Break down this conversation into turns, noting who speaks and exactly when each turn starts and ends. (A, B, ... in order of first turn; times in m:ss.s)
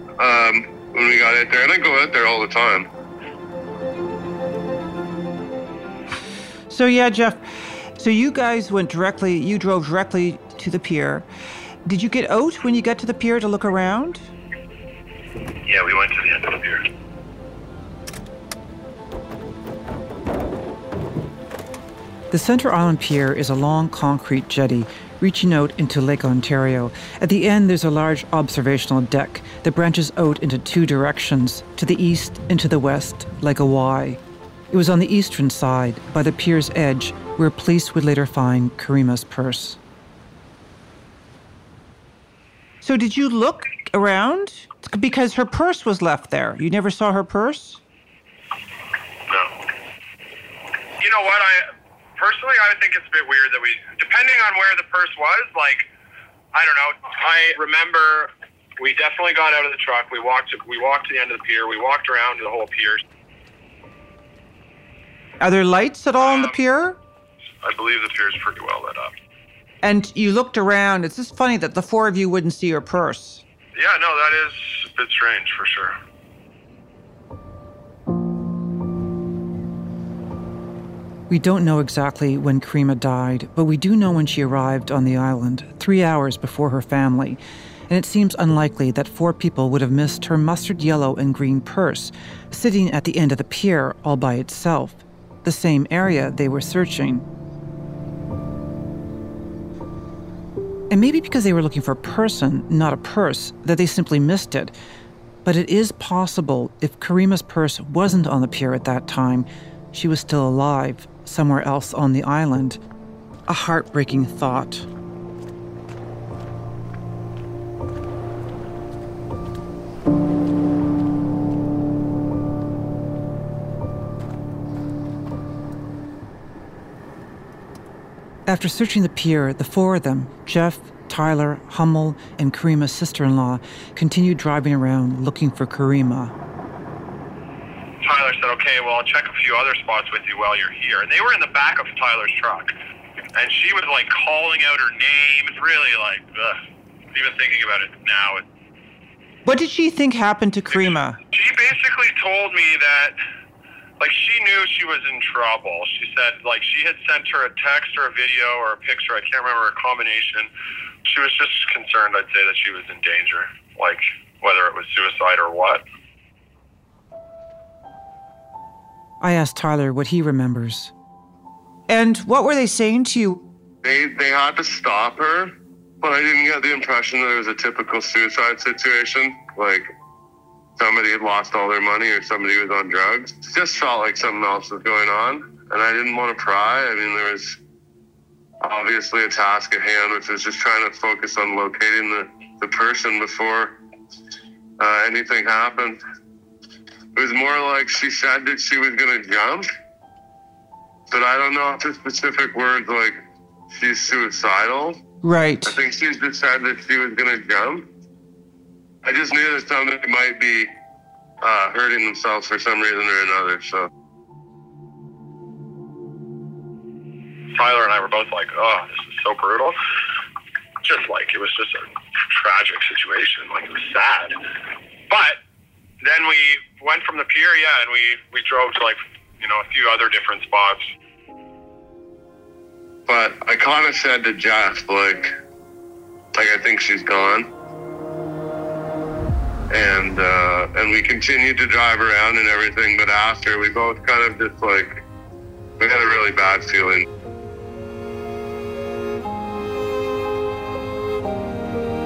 0:00.2-0:02.9 A
0:06.7-0:11.3 B
0:11.8-0:14.3 B
0:15.7-0:16.8 C
0:22.3-0:34.2 B
0:34.7-0:39.8 B
0:42.8-0:47.8 B
0:51.0-0:55.8 C
0:56.5-1:03.0 C
1:05.4-1:07.0 B
1:06.2-1:06.6 C
1:07.6-1:09.1 C
1:09.8-1:13.4 B
1:13.8-1:16.0 C
1:21.3-1:37.2 B
1:40.9-1:44.8 B
1:45.4-1:52.8 B
1:53.5-1:54.9 B
2:08.5-2:16.3 B
2:18.0-2:22.7 C
2:23.4-2:26.6 C
2:27.1-2:28.4 C
2:29.4-2:31.2 B
2:30.7-2:33.2 C
2:34.0-2:40.5 C
2:41.1-2:45.8 C
2:49.2-2:50.9 B
2:51.9-2:53.4 B
2:53.8-2:59.9 A
3:00.8-3:07.6 A
3:08.6-3:13.8 A
3:14.8-3:16.0 A
3:17.2-3:19.7 A
3:21.1-3:23.2 A
3:23.7-3:25.0 A
3:25.2-3:25.8 B
3:25.7-3:27.9 A
3:29.0-3:30.7 A
3:31.4-3:33.9 A
3:37.5-3:39.8 C
3:40.8-3:44.4 C
3:45.1-3:45.4 C
3:46.0-3:50.9 C
3:53.1-3:55.3 A
3:56.3-3:57.5 A
3:59.7-4:05.0 A
4:05.8-4:07.0 A